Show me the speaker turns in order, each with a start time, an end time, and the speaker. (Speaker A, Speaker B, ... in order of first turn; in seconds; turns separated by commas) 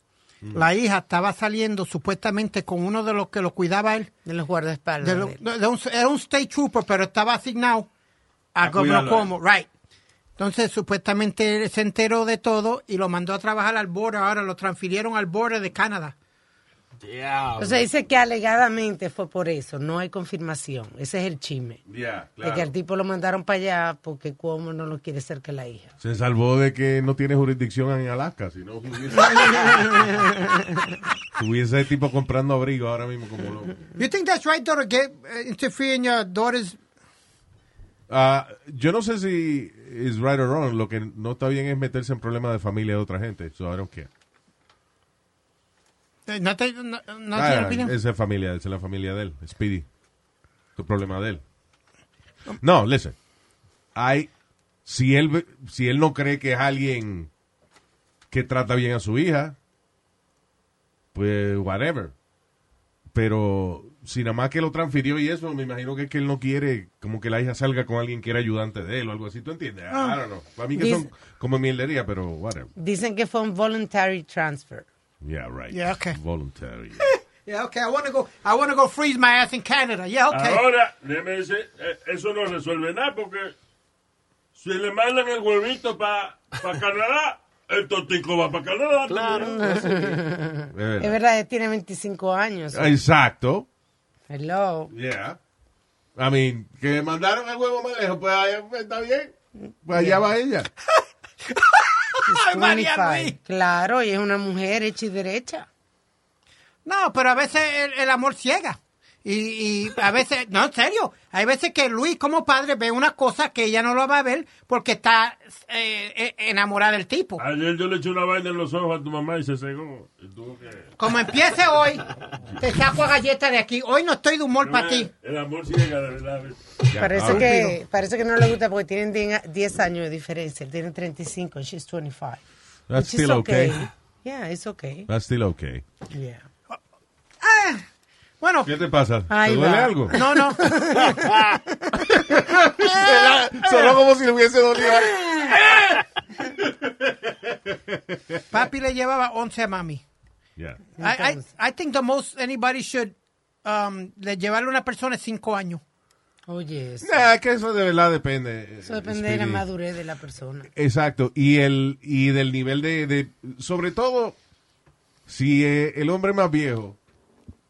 Speaker A: 0.5-4.1, Speaker B: 4.2-5.4, Speaker A: 5.0-7.9, Speaker A: 8.6-9.7, Speaker C: 8.6-9.3, Speaker A: 10.4-16.1, Speaker D: 17.0-17.9, Speaker B: 17.6-21.8, Speaker C: 21.9-22.7, Speaker B: 22.4-25.9, Speaker C: 26.0-30.1, Speaker B: 29.2-30.9, Speaker C: 31.4-33.8, Speaker A: 34.0-36.8, Speaker C: 38.1-44.1, Speaker A: 46.3-47.9, Speaker C: 47.3-49.9, Speaker C: 50.8-51.4, Speaker C: 52.6-53.1, Speaker C: 54.0-54.3, Speaker C: 54.9-57.3, Speaker C: 58.3-59.6, Speaker C: 61.1-62.1, Speaker C: 63.1-72.7, Speaker A: 69.9-70.2, Speaker B: 70.8-71.0, Speaker B: 72.8-74.9, Speaker C: 75.2-77.0, Speaker A: 75.7-76.2, Speaker A: 77.0-80.6, Speaker E: 80.3-83.5, Speaker E: 84.5-89.6, Speaker D: 89.1-90.2, Speaker B: 89.6-93.0, Speaker C: 90.7-91.2, Speaker C: 92.7-93.7, Speaker B: 94.3-94.9, Speaker C: 94.9-95.4, Speaker C: 96.2-99.3, Speaker B: 99.7-100.2, Speaker C: 99.8-100.7, Speaker A: 101.5-103.4, Speaker B: 102.3-105.7, Speaker A: 106.8-117.4, Speaker E: 117.4-120.9, Speaker A: 121.0-122.0, Speaker A: 122.6-125.1, Speaker E: 124.6-126.6, Speaker C: 126.9-127.5, Speaker B: 127.0-132.4, Speaker A: 127.2-127.8, Speaker C: 132.9-133.8, Speaker B: 132.9-135.1, Speaker C: 135.1-135.8, Speaker B: 136.1-136.4, Speaker A: 137.4-137.8, Speaker A: 138.4-138.7, Speaker C: 138.7-140.2, Speaker B: 139.3-141.6, Speaker A: 140.1-141.2, Speaker C: 142.0-145.9, Speaker A: 143.3-143.8, Speaker B: 145.0-145.6, Speaker C: 146.6-148.4, Speaker A: 148.5-150.0, Speaker C: 150.6-150.8, Speaker B: 151.0-151.4, Speaker A: 151.0-155.8, Speaker B: 156.5-157.3, Speaker C: 157.0-159.7, Speaker B: 158.8-160.7, Speaker C: 160.8-164.4, Speaker C: 165.3-167.0